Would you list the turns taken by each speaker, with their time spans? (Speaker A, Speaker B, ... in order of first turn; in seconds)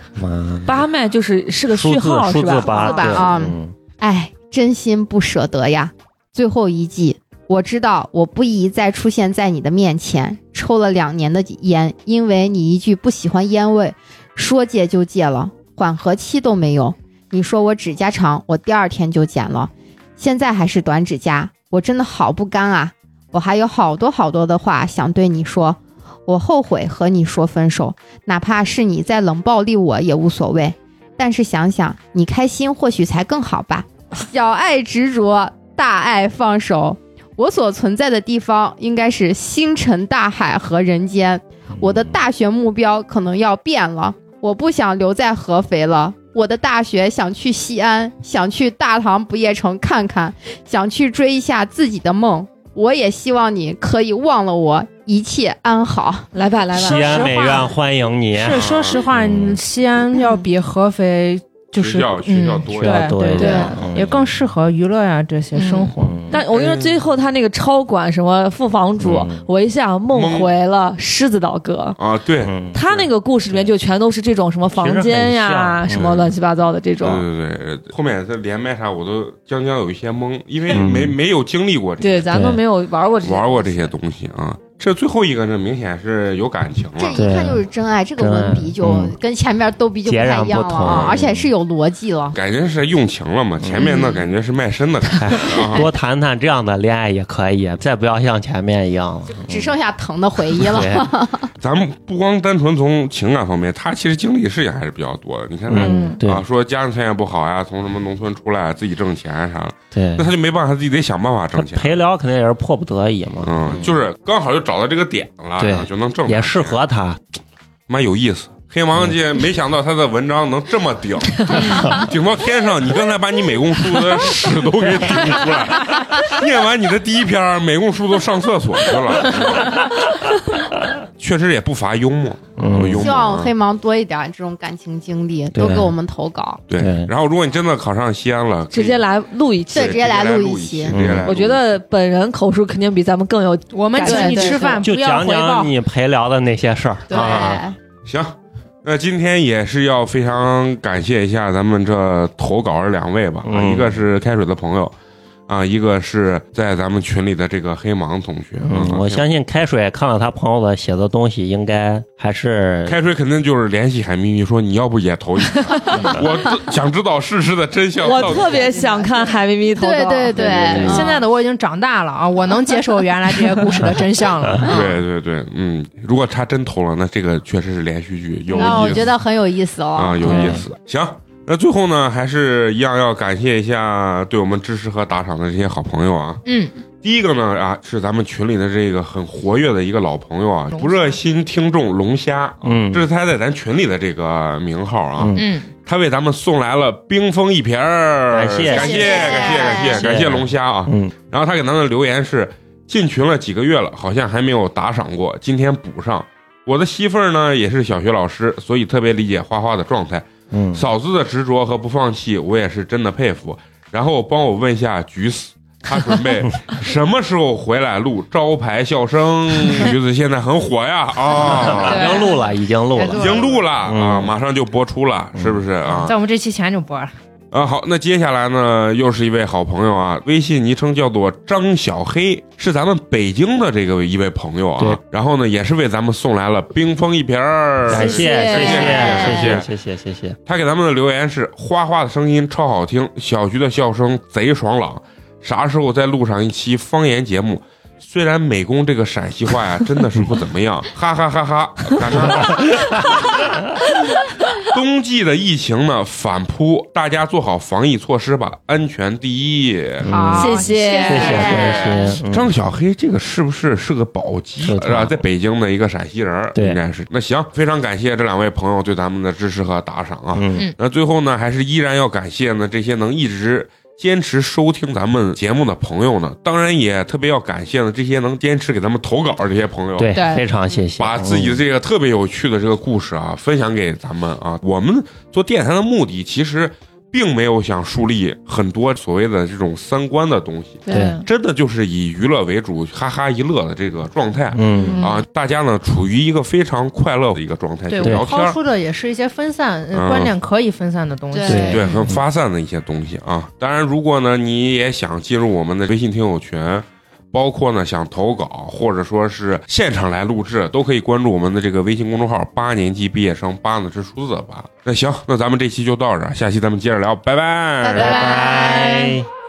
Speaker A: 0.2-0.8, 1.7-3.7, 56.7-59.6, 62.8-64.3, 66.0-66.4, 69.0-69.5, 72.4-73.7, 74.7-76.3, 80.7-81.2, 82.3-82.6, 87.2-87.6, 88.2-89.1, 90.1-91.5, 93.6-93.9, 95.2-99.7, 100.6-101.1, 105.7-106.4, 109.9-110.3, 111.5-113.9, 115.6-117.2, 121.5-121.9, 125.2-125.6, 132.6-133.1, 135.5-135.9, 136.8-137.1, 140.9-141.4, 144.8-147.6, 153.4-154.0, 158.6-163.0, 180.2-180.7, 192.6-193.1, 195.2-195.5, 198.3-199.1, 199.8-201.1, 210.5-210.8, 221.4-224.3, 225.4-225.6, 237.9-240.4, 252.4-252.9, 260.0-260.5, 261.1-262.5, 264.6-265.2, 266.6-266.8, 270.4-270.7, 280.0-281.6, 290.9-291.2, 294.5-295.0, 301.5-302.2, 317.9-319.3
Speaker B: 0.7-3.3, 56.3-57.6, 63.4-63.8, 65.5-72.0, 72.7-77.2, 82.0-83.9, 138.7-140.0, 141.2-144.8, 165.8-166.0, 168.0-171.0, 238.2-238.9, 260.3-261.9, 290.9-291.2
Speaker C: 2.9-56.3, 87.0-92.3, 99.5-101.5, 133.0-136.6, 139.7-141.1, 144.0-144.8, 147.1-147.8, 169.8-171.2, 178.5-180.4, 198.7-200.0, 238.0-239.6, 260.1-261.8, 317.8-319.1
Speaker D: 56.8-57.7, 58.4-66.2, 143.7-145.8, 168.2-169.2, 170.8-174.8, 190.7-191.2, 195.3-195.7, 221.6-223.7, 225.8-227.1, 260.5-261.7, 280.1-280.4, 297.9-301.9
Speaker E: 58.5-59.1, 61.8-63.4, 66.4-67.0, 70.1-70.5, 72.0-72.5, 76.0-76.2, 77.0-82.3, 83.2-87.2, 90.8-91.3, 92.3-95.9, 101.6-112.0, 113.4-116.8, 117.9-130.1, 130.9-133.5, 136.7-139.0, 139.7-141.6, 148.1-154.9, 155.5-159.2, 162.9-168.8, 170.4-171.2, 174.6-179.2, 180.0-186.4, 187.0-222.3, 223.2-226.2, 227.5-239.7, 240.4-253.6, 254.6-260.6, 261.5-280.4, 281.0-298.6, 299.9-300.3, 301.5-318.5